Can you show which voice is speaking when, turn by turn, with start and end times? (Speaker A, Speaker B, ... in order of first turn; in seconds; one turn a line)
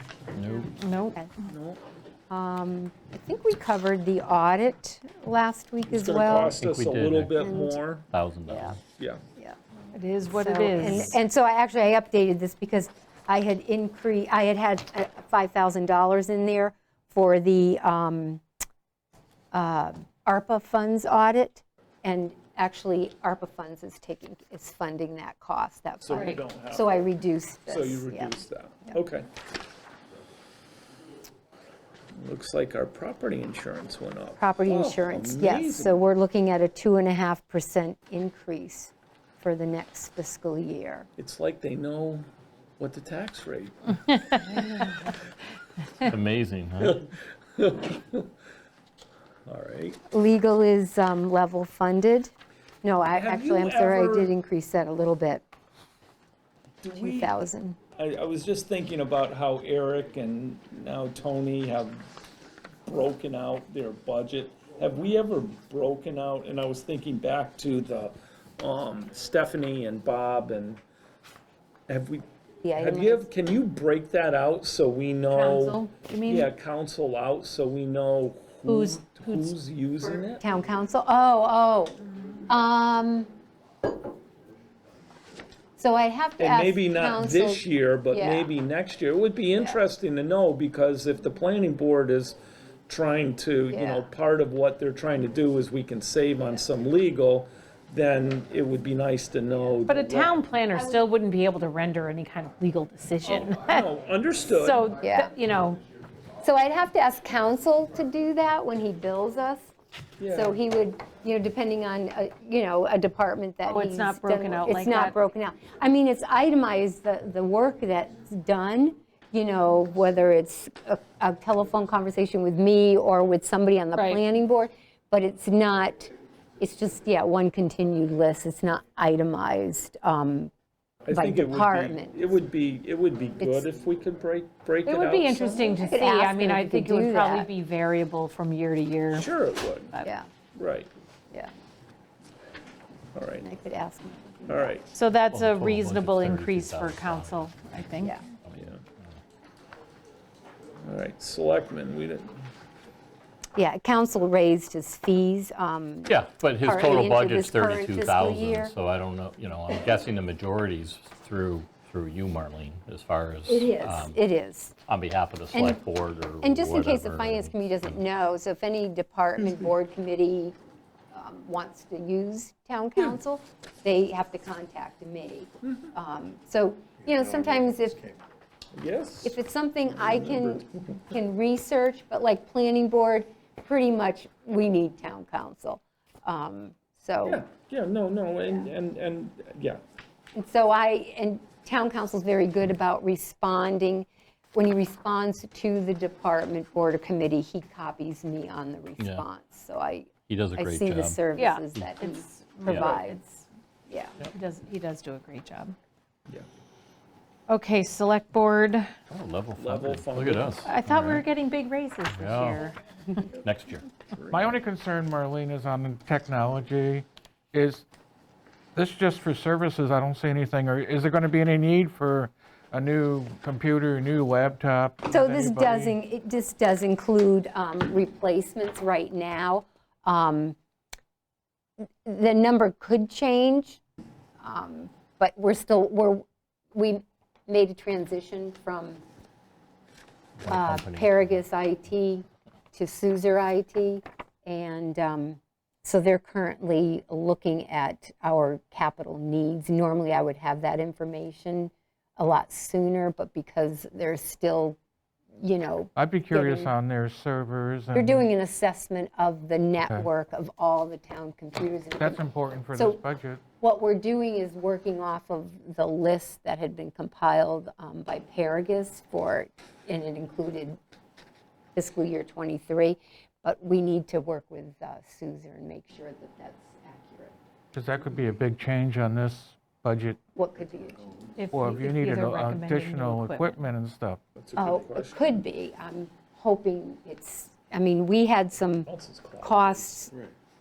Speaker A: 0.3-0.7
Speaker B: 0.5-1.3
Speaker C: 0.8-1.2
Speaker D: 1.4-1.8
Speaker B: 2.3-6.6
Speaker D: 5.8-8.1
Speaker A: 6.5-7.5
Speaker B: 7.4-7.8
Speaker A: 8.1-8.8
Speaker B: 8.5-8.8
Speaker D: 8.9-9.2
Speaker C: 9.9-11.2
Speaker B: 10.3-18.4
Speaker B: 19.5-28.3
Speaker D: 26.0-27.0
Speaker D: 27.7-29.3
Speaker D: 32.1-36.0
Speaker B: 34.4-41.1
Speaker D: 41.2-42.2
Speaker D: 42.8-44.0
Speaker A: 46.0-47.0
Speaker D: 46.8-48.3
Speaker D: 49.5-50.0
Speaker B: 50.1-55.4
Speaker D: 53.1-54.3
Speaker D: 56.8-57.3
Speaker B: 56.9-57.8
Speaker D: 58.0-62.0
Speaker D: 62.9-70.8
Speaker D: 71.9-72.2
Speaker B: 72.6-73.3
Speaker D: 72.8-80.4
Speaker B: 75.3-75.9
Speaker C: 76.0-76.5
Speaker C: 78.7-79.5
Speaker B: 80.4-82.0
Speaker B: 82.5-83.3
Speaker B: 85.8-88.5
Speaker D: 86.4-92.4
Speaker D: 92.9-100.3
Speaker B: 93.7-94.1
Speaker C: 99.9-103.9
Speaker D: 103.2-104.9
Speaker C: 104.5-105.8
Speaker B: 105.0-105.3
Speaker B: 106.4-109.7
Speaker D: 110.2-110.6
Speaker B: 110.3-130.5
Speaker C: 113.7-115.1
Speaker C: 123.9-124.2
Speaker D: 131.0-135.7
Speaker B: 131.1-132.4
Speaker B: 133.4-133.7
Speaker C: 134.8-139.3
Speaker B: 135.7-137.5
Speaker D: 139.1-139.9
Speaker B: 140.0-140.3
Speaker D: 140.6-140.9
Speaker D: 143.1-143.5
Speaker B: 143.4-144.8
Speaker D: 144.5-144.9
Speaker C: 144.9-148.2
Speaker A: 145.3-147.6
Speaker A: 148.4-149.1
Speaker D: 148.5-148.8
Speaker D: 150.8-152.4
Speaker B: 153.5-158.7
Speaker A: 156.1-164.2
Speaker B: 163.5-164.7
Speaker A: 164.9-168.0
Speaker B: 165.5-165.8
Speaker B: 166.4-170.5
Speaker B: 171.1-178.1
Speaker D: 178.7-179.4
Speaker B: 179.2-187.4
Speaker D: 180.0-180.7
Speaker D: 187.2-189.8
Speaker B: 190.3-203.2
Speaker A: 199.0-199.2
Speaker A: 200.3-201.2
Speaker C: 201.3-203.4
Speaker A: 202.7-203.0
Speaker B: 203.9-204.2
Speaker C: 204.3-205.8
Speaker C: 207.5-208.9
Speaker A: 209.1-211.2
Speaker D: 209.6-210.7
Speaker C: 210.6-212.8
Speaker A: 212.1-212.6
Speaker A: 213.4-213.9
Speaker D: 214.1-214.6
Speaker E: 214.3-217.8
Speaker E: 218.7-225.9
Speaker B: 225.1-230.6
Speaker B: 231.8-233.8
Speaker B: 234.4-239.0
Speaker A: 240.4-241.4
Speaker B: 240.4-254.8
Speaker B: 255.4-256.7
Speaker E: 255.9-258.3
Speaker B: 257.9-263.0
Speaker E: 262.0-263.4
Speaker B: 263.6-270.8
Speaker B: 271.7-277.4
Speaker E: 277.7-280.2
Speaker B: 280.3-281.1
Speaker C: 281.4-283.6
Speaker E: 281.5-284.2
Speaker D: 284.4-285.4
Speaker B: 284.6-288.9
Speaker D: 288.9-290.1
Speaker B: 289.4-290.1